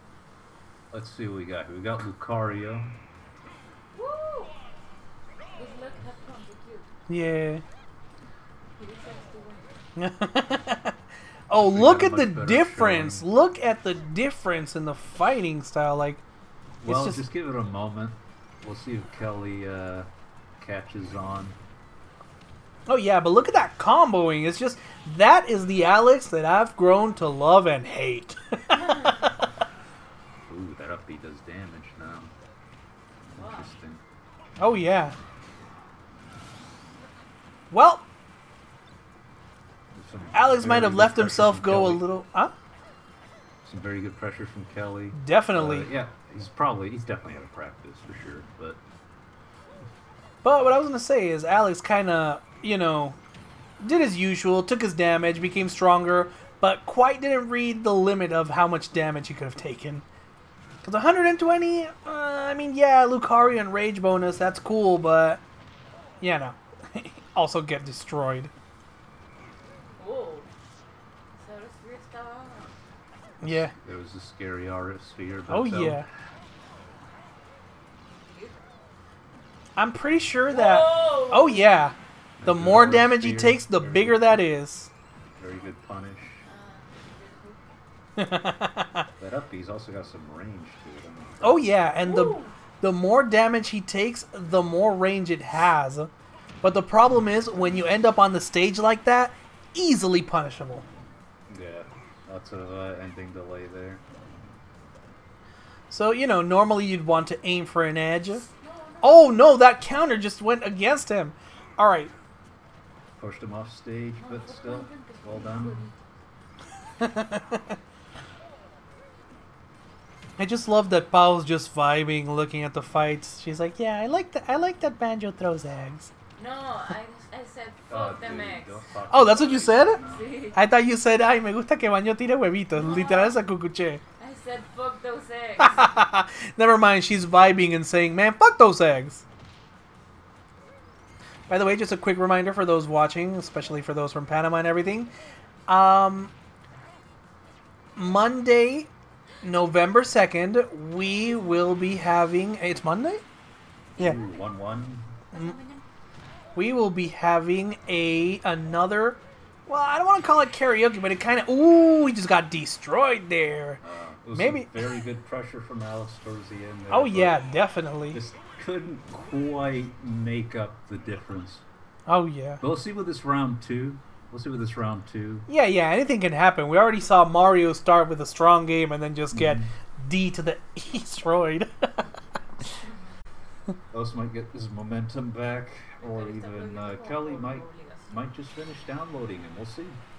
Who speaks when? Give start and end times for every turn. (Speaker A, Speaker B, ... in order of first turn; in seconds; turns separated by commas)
Speaker A: 0.9-3.0, Speaker B: 4.0-4.6, Speaker B: 5.5-6.9, Speaker C: 7.1-7.6, Speaker B: 8.8-9.8, Speaker C: 10.0-10.9, Speaker C: 11.5-16.2, Speaker A: 11.6-13.2, Speaker A: 16.8-20.1, Speaker C: 16.9-17.2, Speaker A: 20.6-21.6, Speaker C: 22.9-29.3, Speaker A: 30.5-32.3, Speaker A: 33.3-34.0, Speaker B: 33.3-33.7, Speaker C: 34.6-35.1, Speaker C: 37.7-38.0, Speaker A: 39.9-42.0, Speaker C: 40.3-42.5, Speaker A: 43.6-48.8, Speaker C: 45.1-45.9, Speaker C: 50.4-53.2, Speaker C: 53.8-60.0, Speaker C: 60.8-65.4, Speaker C: 66.2-68.5, Speaker B: 70.0-70.5, Speaker B: 71.4-72.8, Speaker C: 73.4-73.7, Speaker A: 73.4-76.1, Speaker C: 75.5-76.1, Speaker B: 78.2-78.6, Speaker C: 79.8-84.9, Speaker B: 80.5-81.9, Speaker A: 82.4-84.4, Speaker A: 85.4-86.5, Speaker B: 86.4-87.6, Speaker C: 88.2-89.1, Speaker A: 89.2-91.8, Speaker C: 91.4-96.1, Speaker B: 92.0-92.5, Speaker C: 96.6-100.8, Speaker A: 101.5-104.0, Speaker C: 105.9-108.5, Speaker B: 108.3-109.4, Speaker C: 109.0-112.1, Speaker A: 113.2-115.9, Speaker B: 114.2-116.0, Speaker C: 117.0-117.6, Speaker C: 120.4-126.1, Speaker B: 126.4-128.9, Speaker A: 127.9-130.4, Speaker C: 129.1-130.0, Speaker B: 129.9-130.6, Speaker C: 130.5-134.0, Speaker B: 132.7-133.4, Speaker B: 134.2-135.9, Speaker C: 135.6-139.2, Speaker C: 141.5-145.1, Speaker C: 145.7-146.3, Speaker C: 148.0-148.9, Speaker C: 149.4-153.2, Speaker A: 154.0-155.1, Speaker B: 155.3-155.8, Speaker C: 156.6-163.8, Speaker A: 163.8-167.4, Speaker C: 164.3-164.8, Speaker C: 166.9-168.2, Speaker A: 168.1-171.6, Speaker C: 172.1-172.6, Speaker A: 172.6-175.5, Speaker C: 175.5-182.0, Speaker A: 179.3-179.7, Speaker A: 183.9-190.0, Speaker B: 186.0-188.2